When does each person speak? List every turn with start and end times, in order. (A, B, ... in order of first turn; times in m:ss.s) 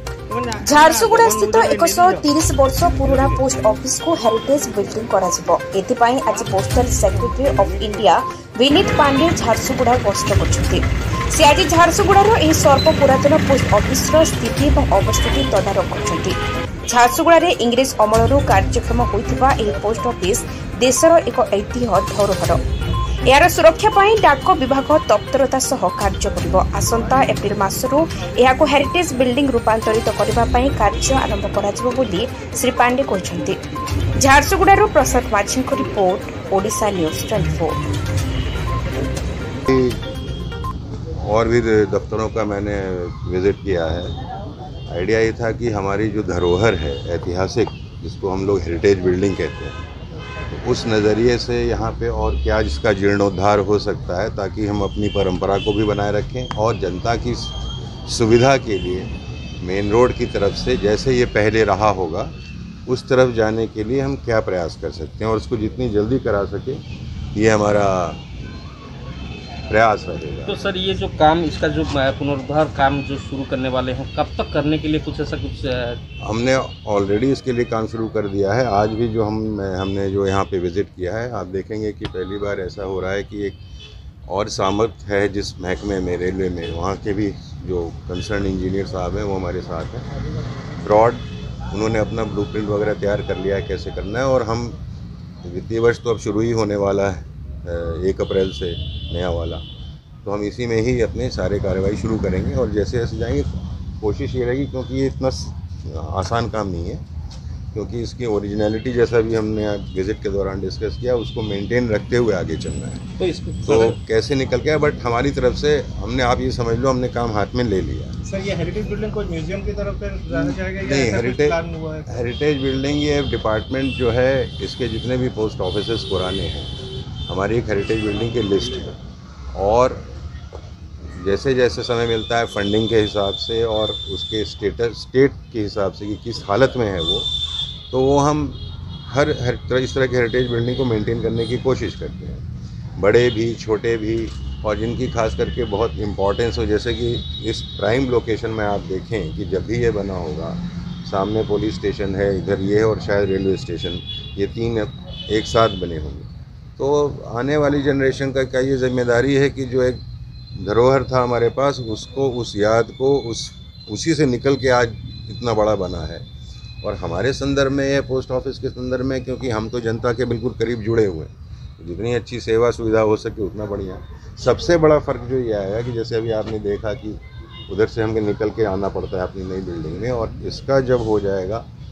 0:00.3-0:02.3 A
0:00.6-0:22.6 B
0:03.1-0:03.4 A
0:23.2-0:33.6 B
0:34.2-0:37.8 B
0:39.7-0:40.0 C
0:41.2-0:44.1 C
0:44.9-0:49.8 C
0:50.5-0:59.1 C
0:59.6-1:02.3 C
1:02.9-1:06.8 C
1:07.3-1:08.2 C
1:09.7-1:10.7 C
1:10.4-1:16.0 D
1:16.2-1:23.6 C
1:24.3-1:30.1 C
1:30.8-1:34.8 C
1:35.4-1:39.6 C
1:40.2-1:47.0 C
1:47.7-1:53.1 C
1:53.2-1:54.0 D
1:53.6-1:58.2 C
1:58.3-2:02.1 A
2:00.3-2:06.7 C
2:07.3-2:09.0 C
2:09.5-2:10.0 C
2:11.1-2:17.3 C
2:17.9-2:22.4 C
2:23.0-2:36.3 C
2:36.8-2:40.0 C
2:40.5-2:46.2 C
2:46.8-3:01.6 C